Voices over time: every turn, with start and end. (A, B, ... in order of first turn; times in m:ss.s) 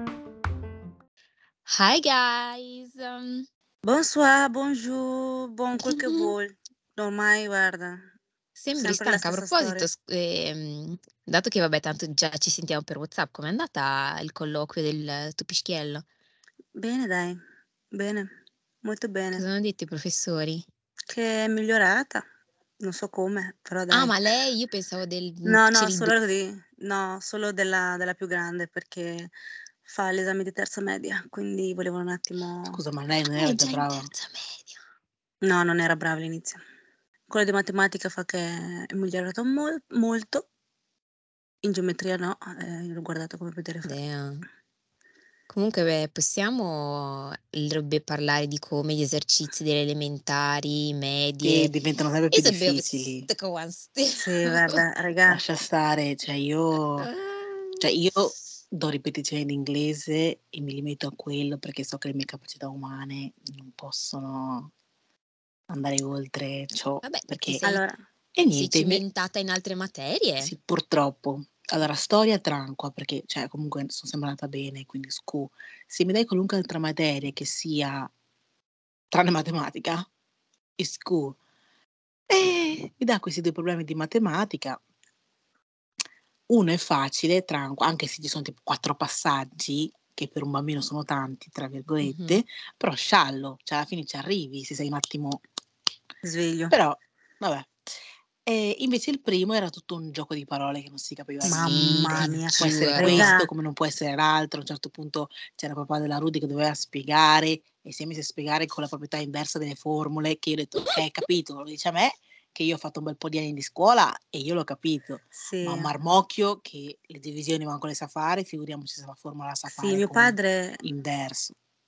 0:01.6-0:03.5 A
0:03.8-0:08.0 B
0:05.8-0:06.3 A
0:08.6-0:16.0 A
0:08.8-0:09.9 B
0:16.8-0:17.4 B
0:17.9-0:18.3 B
0:18.8-0:19.4 B
0:19.3-0:20.6 A
0:21.1-0:22.2 B
0:22.8-0:24.1 B
0:23.9-0:26.1 A
0:25.4-0:29.3 B
0:29.8-0:32.8 B
0:32.6-0:34.1 C
0:33.4-0:34.8 A
0:35.4-0:36.6 B
0:37.3-0:40.4 B
0:41.6-0:43.9 B
0:43.8-0:44.4 A
0:45.5-0:51.7 A
0:51.4-0:53.3 C
0:52.3-0:54.8 A
0:54.2-0:55.4 B
0:55.3-0:57.1 C
0:57.0-0:58.3 A
0:57.8-1:04.7 C
1:05.7-1:07.6 C
1:07.0-1:07.8 A
1:07.6-1:08.0 B
1:08.4-1:09.0 C
1:08.5-1:10.5 A
1:10.4-1:18.1 C
1:19.1-1:20.1 C
1:20.8-1:21.4 C
1:22.3-1:24.8 C
1:26.5-1:35.4 C
1:32.0-1:32.4 A
1:36.2-1:36.7 B
1:36.7-1:37.7 C
1:38.4-2:01.6 C
1:41.4-1:43.3 A
1:41.5-1:43.5 B
1:55.4-1:55.9 B
1:59.7-2:00.8 B